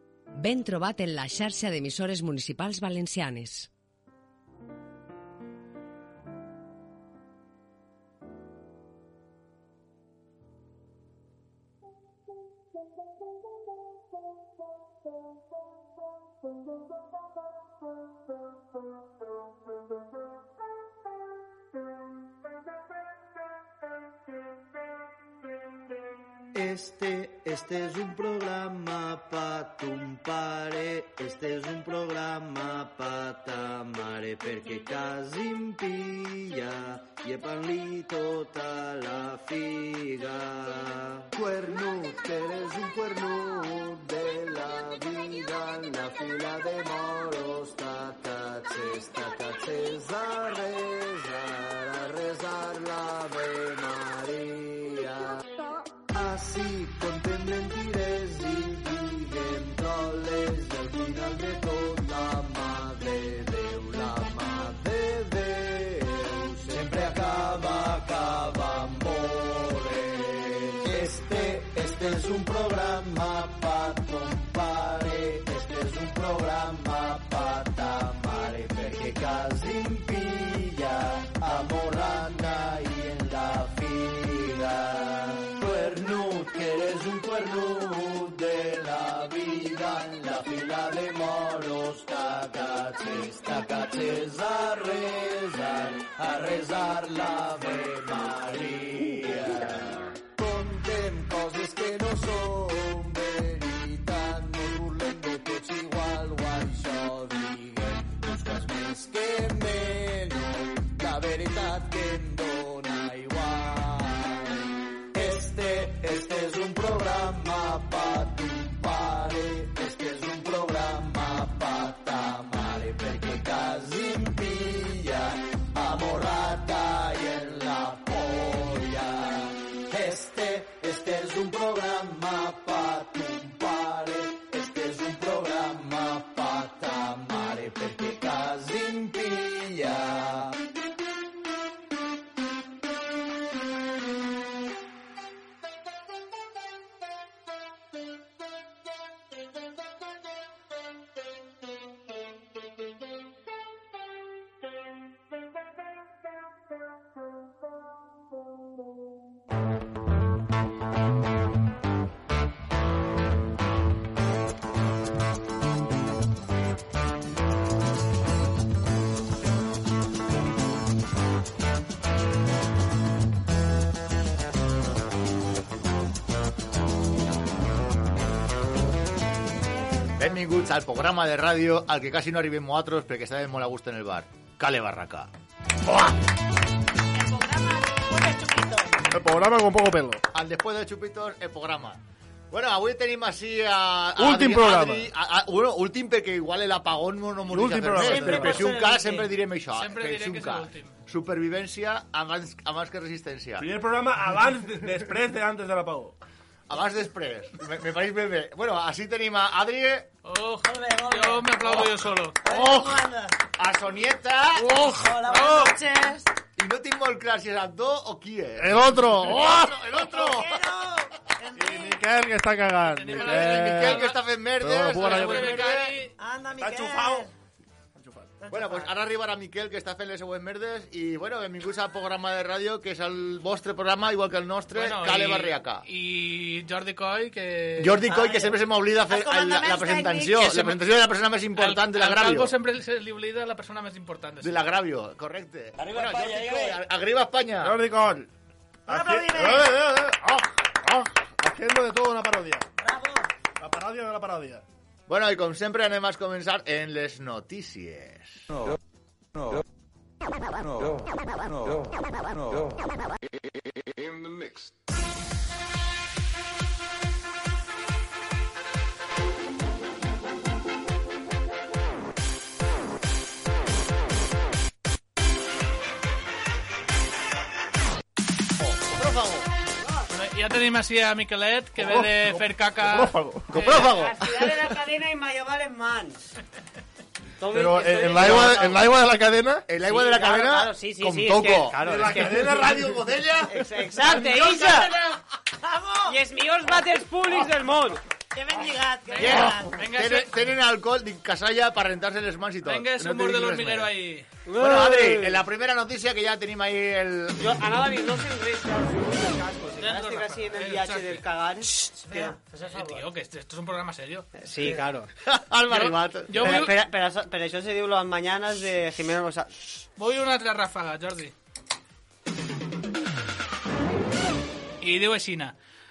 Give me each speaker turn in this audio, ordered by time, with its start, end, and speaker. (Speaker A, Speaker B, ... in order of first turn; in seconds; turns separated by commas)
Speaker A: 0.3-3.7, Speaker B: 26.5-55.4, Speaker B: 56.1-140.6, Speaker C: 180.2-185.3, Speaker D: 187.1-189.1, Speaker E: 189.1-190.2, Speaker C: 190.3-192.0, Speaker C: 192.5-203.7, Speaker E: 194.2-195.1, Speaker E: 197.5-198.7, Speaker D: 198.0-199.3, Speaker F: 199.8-200.9, Speaker E: 203.6-206.2, Speaker C: 206.7-210.1, Speaker F: 210.2-212.4, Speaker D: 210.6-211.8, Speaker D: 212.4-213.4, Speaker C: 213.6-214.9, Speaker D: 214.7-216.3, Speaker F: 215.3-215.8, Speaker C: 216.6-220.6, Speaker E: 218.6-219.8, Speaker D: 220.0-222.0, Speaker E: 221.6-224.1, Speaker F: 222.9-224.2, Speaker C: 223.1-226.0, Speaker E: 224.6-225.7, Speaker F: 224.9-226.1, Speaker D: 226.2-227.3, Speaker E: 226.6-227.3, Speaker E: 228.0-228.3, Speaker D: 228.4-228.9, Speaker C: 228.5-235.8, Speaker F: 234.8-238.0, Speaker C: 237.8-242.5, Speaker D: 238.0-240.6, Speaker F: 240.4-240.7, Speaker F: 241.6-244.6, Speaker C: 244.4-247.8, Speaker E: 246.0-246.5, Speaker E: 247.6-248.3, Speaker E: 248.9-252.7, Speaker D: 248.9-249.7, Speaker D: 252.8-253.3, Speaker E: 253.6-254.6, Speaker C: 255.1-258.4, Speaker C: 278.6-279.4, Speaker F: 280.1-283.2, Speaker E: 281.8-283.6, Speaker C: 283.5-284.5, Speaker G: 283.5-286.2, Speaker G: 287.4-288.9, Speaker E: 287.5-289.7, Speaker C: 288.2-288.8, Speaker C: 289.7-291.8, Speaker G: 289.8-294.9, Speaker E: 291.7-294.6, Speaker D: 294.3-294.9, Speaker D: 295.6-296.2, Speaker G: 296.1-298.0, Speaker D: 298.3-299.8, Speaker F: 299.1-300.3, Speaker C: 299.2-303.9, Speaker F: 302.6-304.3, Speaker G: 304.4-305.4, Speaker C: 304.5-307.5, Speaker G: 307.4-312.4, Speaker F: 309.8-311.2, Speaker D: 312.0-313.1, Speaker F: 312.7-314.3, Speaker G: 314.4-315.1, Speaker C: 315.2-316.6, Speaker F: 315.7-316.8, Speaker G: 316.4-319.6, Speaker F: 320.0-321.3, Speaker F: 324.8-325.6